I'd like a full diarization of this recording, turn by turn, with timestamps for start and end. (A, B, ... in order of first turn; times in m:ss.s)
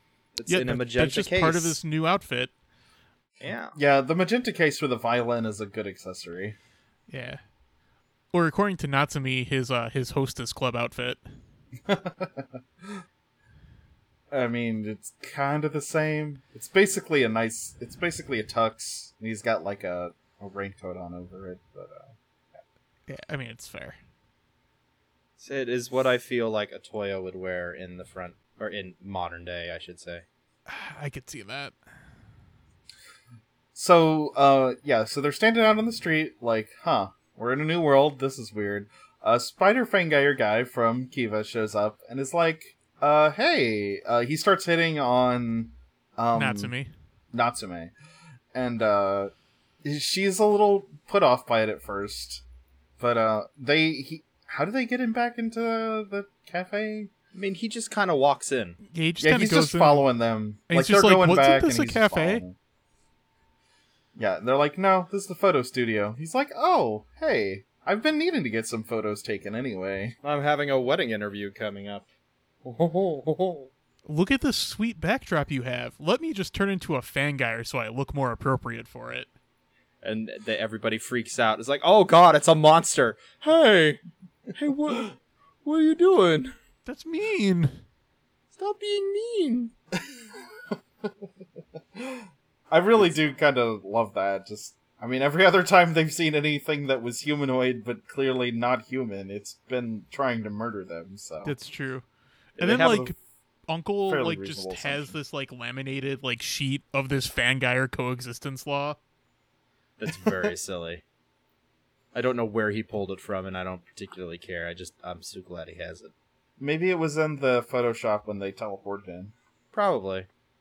0:00.4-0:01.8 A
0:00.5-0:02.5 B
0:03.4-0:03.8 A
0:03.8-0:06.6 C
0:07.1-0:07.4 B
0:08.3-0:11.2 B
0:11.9-0:13.0 C
0:14.3-0:22.1 C
0:23.1-0:24.0 B
0:25.4-0:30.2 A
0:30.7-0:31.7 B
0:33.8-0:46.7 C
0:46.4-0:46.9 B
0:47.3-0:47.9 C
0:48.5-0:49.3 C
0:49.8-0:52.4 C
0:53.0-0:57.1 C
0:57.3-0:58.8 A
0:58.9-1:00.0 B
0:59.2-1:02.6 C
1:00.7-1:02.4 B
1:04.2-1:10.2 C
1:10.2-1:12.0 A
1:12.6-1:13.7 A
1:14.0-1:19.3 B
1:20.0-1:24.0 A
1:24.5-1:26.5 A
1:26.9-1:27.8 B
1:28.5-1:29.7 A
1:31.9-1:41.5 C
1:41.4-1:42.0 B
1:42.6-1:43.1 B
1:42.6-1:43.1 C
1:42.6-1:43.0 A
1:43.7-1:49.0 B
1:44.1-1:45.2 C
1:50.0-1:51.0 A
1:52.1-1:56.1 A
1:56.6-1:59.3 C
1:59.7-2:00.3 A